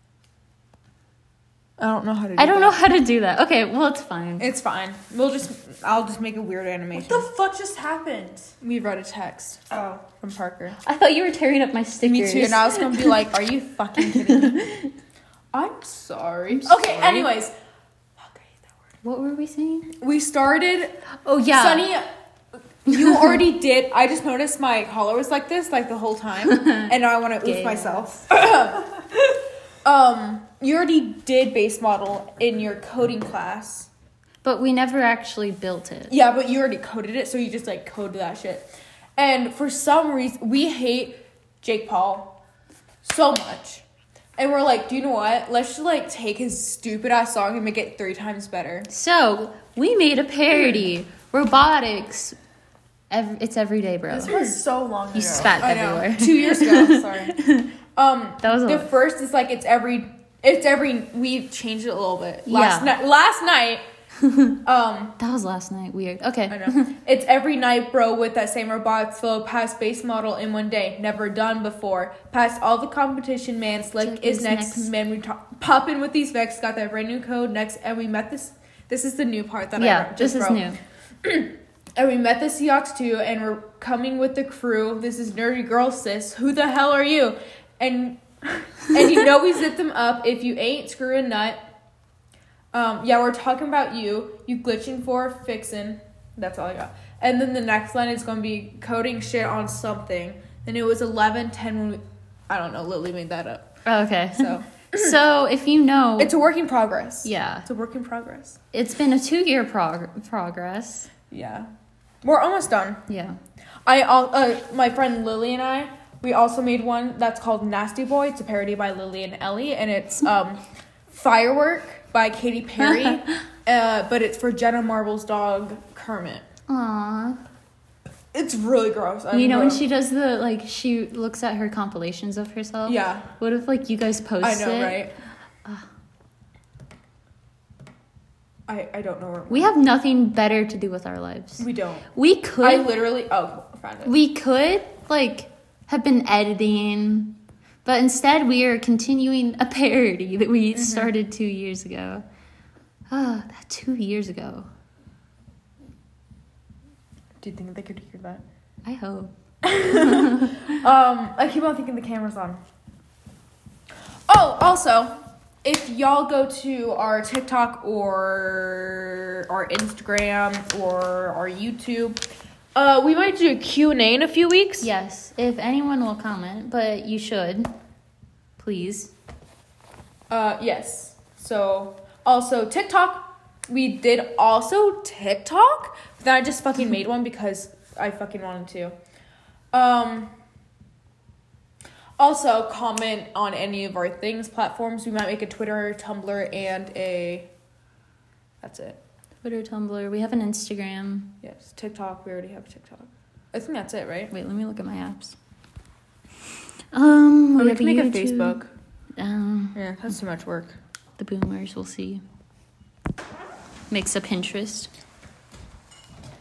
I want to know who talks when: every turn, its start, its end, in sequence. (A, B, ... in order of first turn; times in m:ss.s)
0:01.8-0:02.8 A
0:02.4-0:04.5 B
0:04.4-0:07.3 A
0:06.9-0:08.6 C
0:08.6-0:10.8 A
0:09.7-0:10.0 C
0:10.8-0:13.2 B
0:12.0-0:14.7 A
0:14.1-0:14.9 B
0:15.5-0:17.5 A
0:16.5-0:17.3 B
0:18.2-0:18.6 A
0:19.0-0:19.9 B
0:20.0-0:21.0 A
0:21.2-0:21.9 B
0:21.5-0:22.1 A
0:22.8-0:29.0 A
0:22.9-0:23.4 B
0:26.5-0:28.2 B
0:29.8-0:33.9 A
0:34.4-0:36.1 B
0:36.1-0:42.4 A
0:43.0-0:43.8 A
0:44.4-0:48.9 A
0:48.9-0:52.4 B
0:50.5-0:50.9 A
0:53.1-0:54.6 B
0:54.1-0:55.5 C
0:54.3-0:54.6 A
0:55.1-0:57.7 B
0:55.4-0:57.4 A
0:58.0-1:03.8 A
0:58.4-0:58.9 B
1:02.5-1:02.9 B
1:04.2-1:04.6 B
1:04.6-1:05.2 A
1:05.2-1:06.9 B
1:06.5-1:20.6 A
1:14.0-1:14.9 B
1:19.8-1:20.8 B
1:21.2-1:31.6 A
1:32.7-1:43.7 A
1:43.9-1:46.4 B
1:44.4-1:45.1 A
1:46.2-1:48.6 A
1:47.2-1:47.7 B
1:48.7-1:51.1 B
1:51.3-1:51.7 A
1:52.2-1:53.0 A
1:53.1-1:53.4 B
1:53.8-2:06.4 A
2:06.7-2:07.4 B
2:08.3-2:09.8 A
2:09.3-2:15.1 B
2:12.8-2:13.3 A
2:14.4-2:15.1 A
2:18.7-2:19.7 A
2:19.5-2:22.9 B
2:21.6-2:22.1 A
2:22.6-2:24.2 A
2:24.0-2:32.2 B
2:30.7-2:31.1 A
2:33.1-2:34.7 B
2:37.4-2:38.4 A
2:38.8-2:40.7 B
2:39.6-2:42.6 A
2:44.3-2:45.1 A
2:45.6-2:52.2 A
2:52.8-2:54.9 A
2:54.8-2:57.7 B
2:58.6-2:59.1 B
3:00.3-3:09.0 A
3:09.7-3:10.3 A
3:12.2-3:17.5 A
3:18.6-3:19.0 A
3:19.4-3:21.3 B
3:21.4-3:24.3 A
3:24.3-3:25.4 B
3:26.9-3:28.6 B
3:27.6-3:28.7 A
3:29.2-3:29.8 B
3:29.7-3:30.8 A
3:31.2-3:32.2 B
3:33.9-3:34.9 B